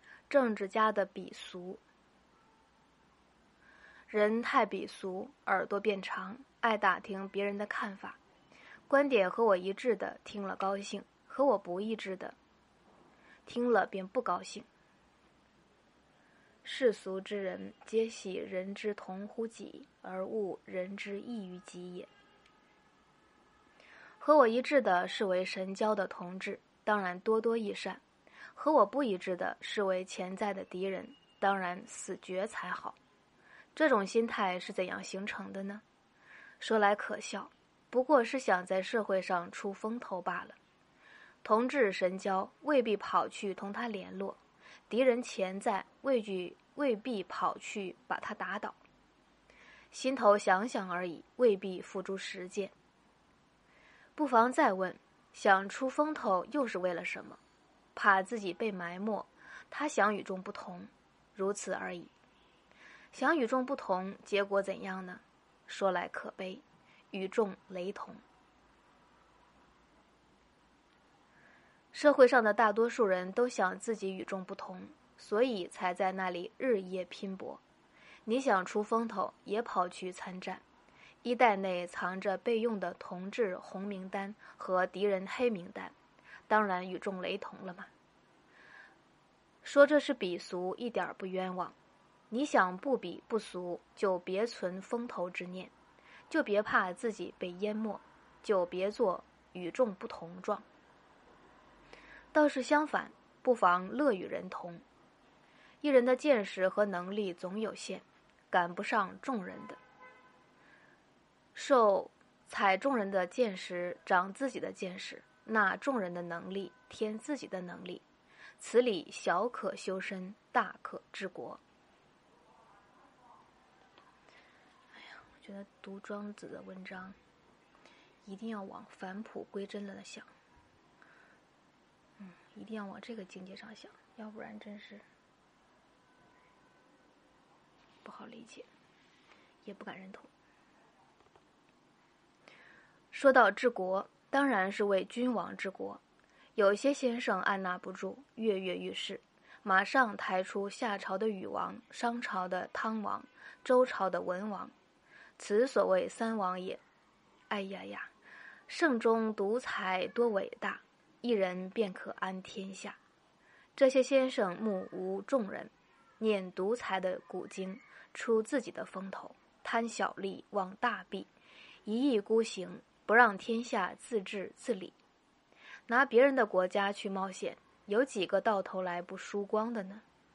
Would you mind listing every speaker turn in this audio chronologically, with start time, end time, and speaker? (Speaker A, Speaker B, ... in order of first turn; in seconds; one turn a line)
Speaker A: 0.3-1.8
Speaker A: 4.1-8.2
Speaker A: 8.9-12.3
Speaker A: 13.4-14.7
Speaker A: 16.6-22.1
Speaker A: 24.2-28.0
Speaker A: 28.5-33.0
Speaker A: 33.7-35.8
Speaker A: 36.6-40.6
Speaker A: 41.4-48.8
Speaker A: 49.9-52.7
Speaker A: 54.1-57.4
Speaker A: 57.9-62.1
Speaker A: 63.1-68.2
Speaker A: 71.9-77.6
Speaker A: 78.2-80.6
Speaker A: 81.2-85.9
Speaker A: 86.5-87.9
Speaker A: 89.6-91.7
Speaker A: 92.3-95.7
Speaker A: 96.3-100.6
Speaker A: 102.3-104.8
Speaker A: 105.8-109.8
Speaker A: 111.5-118.0
Speaker A: 118.6-121.6
Speaker A: 124.9-127.2
Speaker A: 128.2-130.3
Speaker A: 132.2-135.0
Speaker A: 138.0-138.7
Speaker A: 139.6-140.3
Speaker A: 143.1-146.0
Speaker A: 146.6-154.7
Speaker A: 155.4-156.8
Speaker A: 157.5-158.1
Speaker A: 158.7-163.0
Speaker A: 163.8-171.3
Speaker A: 171.8-174.9
Speaker A: 175.9-180.0